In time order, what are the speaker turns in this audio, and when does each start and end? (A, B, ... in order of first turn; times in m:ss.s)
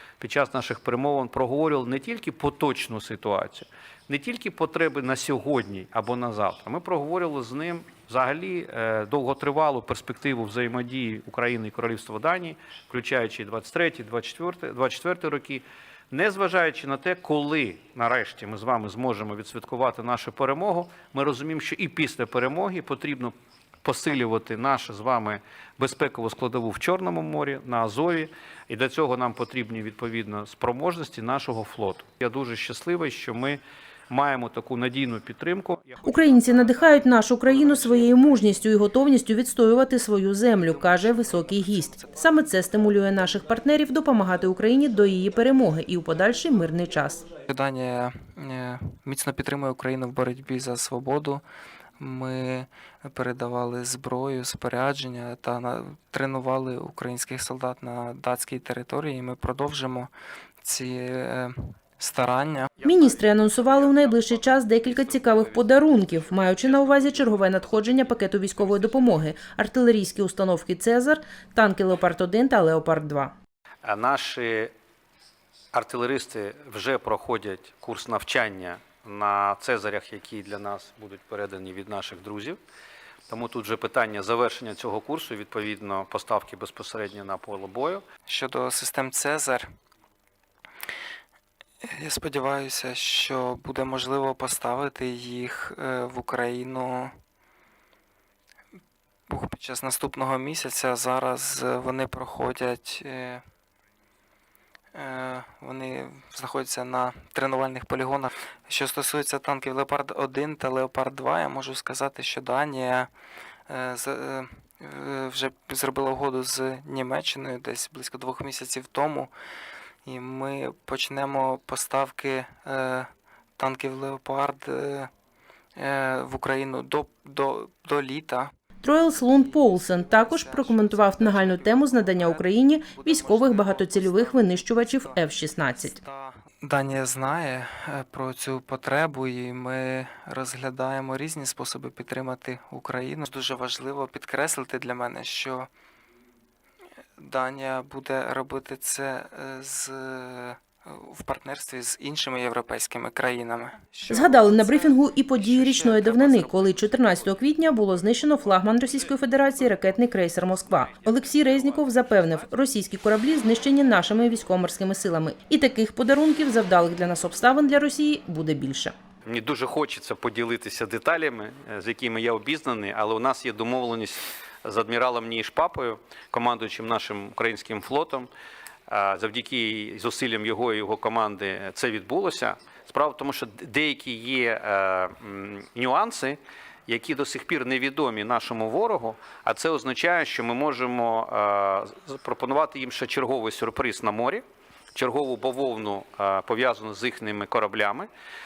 0:00.2-0:38.5 A
0:36.0-0:47.2 B
0:40.6-0:42.3 C
0:47.5-0:51.4 C
0:52.0-1:00.1 C
1:00.6-1:02.7 C
1:02.7-1:09.2 A
1:02.8-1:13.3 B
1:13.8-1:14.7 A
1:15.7-1:22.6 A
1:23.3-1:28.0 A
1:28.3-1:29.7 C
1:31.8-1:37.1 C
1:39.3-1:43.4 C
1:44.9-1:53.1 C
1:53.7-1:59.3 C
2:00.0-2:05.1 C
2:05.8-2:08.5 C
2:08.8-2:16.0 B
2:09.2-2:25.7 C
2:27.2-2:36.6 C
2:34.1-2:48.9 B
2:36.5-2:42.6 A
2:49.2-2:58.3 A
2:58.9-3:14.4 A
3:14.9-3:18.1 A